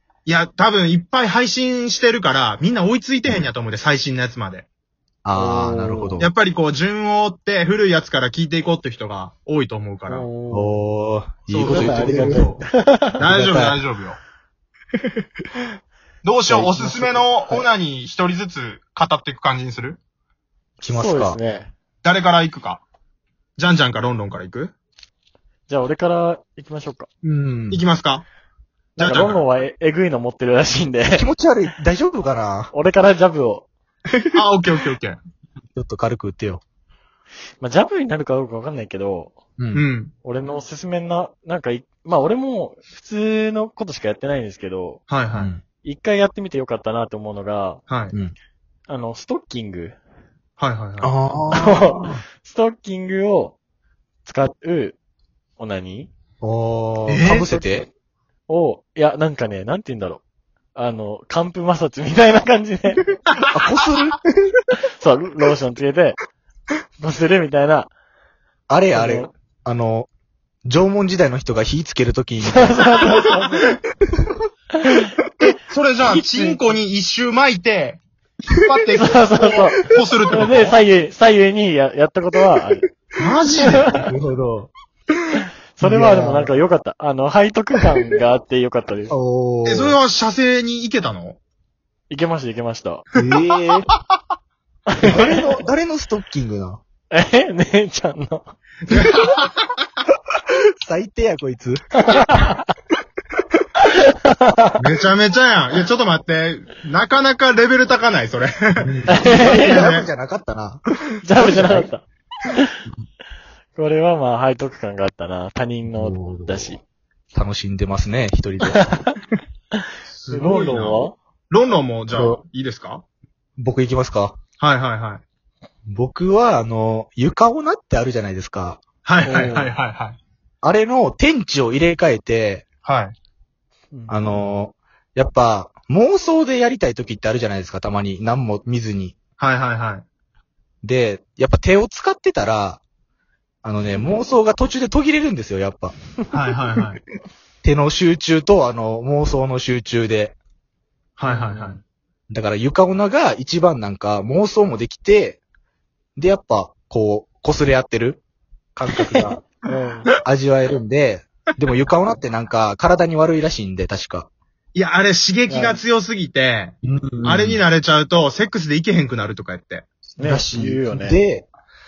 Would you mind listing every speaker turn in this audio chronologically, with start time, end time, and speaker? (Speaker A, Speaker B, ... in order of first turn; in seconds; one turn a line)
Speaker A: 0.3-4.7
Speaker B: 5.2-6.3
Speaker C: 5.3-6.2
Speaker A: 6.2-10.3
Speaker C: 10.1-10.8
Speaker B: 10.5-12.5
Speaker A: 11.5-12.6
Speaker C: 11.7-13.2
Speaker A: 13.2-14.2
Speaker B: 13.2-13.8
Speaker A: 16.2-20.0
Speaker B: 16.5-16.8
Speaker C: 16.8-17.6
Speaker B: 20.8-21.4
Speaker C: 20.8-21.7
Speaker A: 22.0-22.8
Speaker A: 23.6-24.7
Speaker C: 25.7-27.1
Speaker B: 27.2-27.8
Speaker A: 27.7-28.3
Speaker C: 29.0-31.3
Speaker A: 29.0-29.4
Speaker B: 31.1-32.7
Speaker C: 32.7-33.7
Speaker A: 34.3-35.2
Speaker B: 35.7-36.6
Speaker C: 37.6-39.4
Speaker B: 39.6-39.8
Speaker A: 39.7-40.1
Speaker C: 40.2-45.1
Speaker A: 45.1-45.5
Speaker B: 45.3-45.6
Speaker C: 45.8-47.8
Speaker A: 47.9-48.1
Speaker C: 48.9-50.0
Speaker A: 50.6-51.1
Speaker B: 51.0-52.2
Speaker C: 51.5-53.6
Speaker C: 54.3-55.0
Speaker C: 55.6-56.1
Speaker B: 56.4-57.9
Speaker A: 57.1-57.5
Speaker C: 57.5-57.9
Speaker C: 58.5-60.2
Speaker C: 60.8-63.1
Speaker B: 63.5-64.2
Speaker C: 64.8-66.2
Speaker C: 67.0-67.9
Speaker B: 68.7-70.1
Speaker C: 68.9-69.3
Speaker B: 70.7-72.9
Speaker C: 72.5-73.7
Speaker C: 74.8-75.1
Speaker A: 75.5-78.0
Speaker C: 76.0-76.7
Speaker A: 78.5-80.8
Speaker C: 78.9-83.0
Speaker A: 83.2-83.9
Speaker C: 83.5-83.9
Speaker B: 83.8-84.7
Speaker C: 85.8-89.1
Speaker B: 85.8-86.6
Speaker B: 89.1-90.0
Speaker A: 89.7-91.4
Speaker C: 92.1-93.1
Speaker B: 93.2-93.9
Speaker C: 94.9-95.5
Speaker B: 95.0-96.8
Speaker C: 97.1-98.5
Speaker A: 98.9-99.8
Speaker B: 100.8-102.4
Speaker C: 102.0-102.7
Speaker C: 103.8-104.8
Speaker A: 104.8-110.1
Speaker B: 108.8-110.8
Speaker C: 109.1-109.9
Speaker C: 111.2-112.7
Speaker B: 111.3-111.9
Speaker C: 113.8-116.8
Speaker B: 115.9-116.8
Speaker B: 117.3-119.0
Speaker C: 118.7-119.2
Speaker C: 119.8-121.2
Speaker A: 120.1-123.0
Speaker B: 122.1-122.4
Speaker B: 123.6-124.4
Speaker A: 124.6-125.2
Speaker B: 125.9-128.8
Speaker A: 129.1-130.2
Speaker C: 129.2-129.8
Speaker B: 130.6-132.7
Speaker A: 132.8-133.2
Speaker C: 133.9-134.2
Speaker B: 134.1-139.2
Speaker A: 139.4-140.1
Speaker B: 140.8-142.8
Speaker B: 143.6-146.0
Speaker A: 146.3-147.0
Speaker B: 147.6-150.4
Speaker A: 151.2-151.8
Speaker C: 151.2-151.8
Speaker B: 152.3-155.4
Speaker B: 156.2-158.2
Speaker B: 158.8-159.4
Speaker C: 159.3-160.1
Speaker B: 160.2-164.3
Speaker A: 164.8-169.9
Speaker C: 165.5-165.8
Speaker B: 166.8-167.6
Speaker C: 170.2-171.2
Speaker B: 170.2-171.5